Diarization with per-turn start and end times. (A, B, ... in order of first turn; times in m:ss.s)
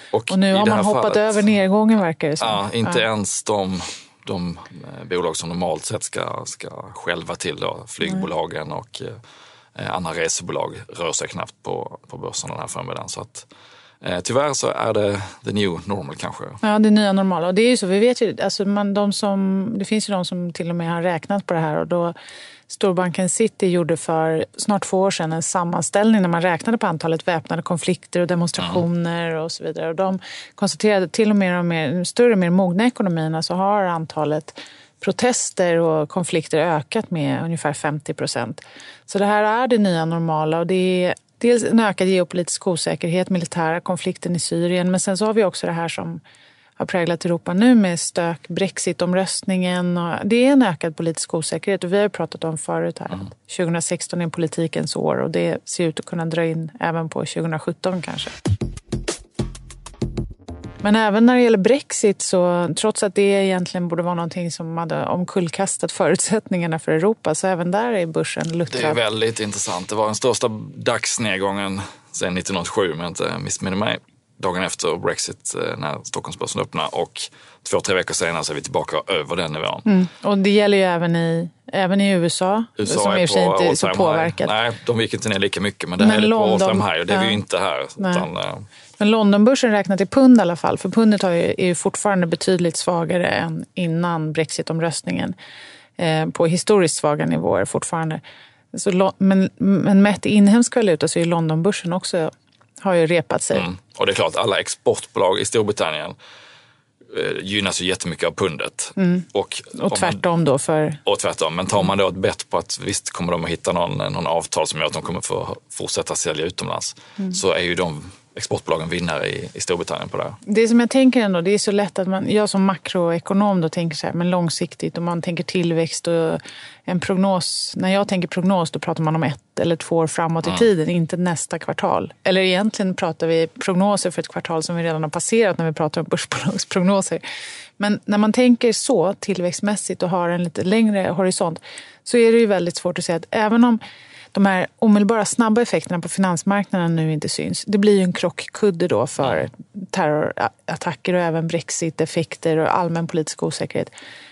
0:00.1-0:01.5 A
0:00.3-0:03.0 B
0:02.4-0:09.2 A
0:09.8-0:13.5 A
0:14.0-0:16.6 A
0:16.6-0:22.2 B
0:22.7-0:46.2 B
0:28.6-0:28.8 A
0:46.8-0:58.3 B
1:00.8-1:09.0 B
1:08.7-1:19.9 A
1:19.9-1:24.5 B
1:22.8-1:28.6 A
1:26.0-1:27.4 B
1:28.0-1:28.3 B
1:29.0-1:35.4 B
1:36.0-1:38.2 B
1:38.7-1:43.7 B
1:43.5-1:46.2 A
1:47.1-1:50.2 A
1:49.0-1:51.0 B
1:51.0-2:00.4 A
2:00.4-2:17.2 B
2:17.8-2:23.8 B
2:24.3-2:33.9 B
2:29.2-2:29.5 A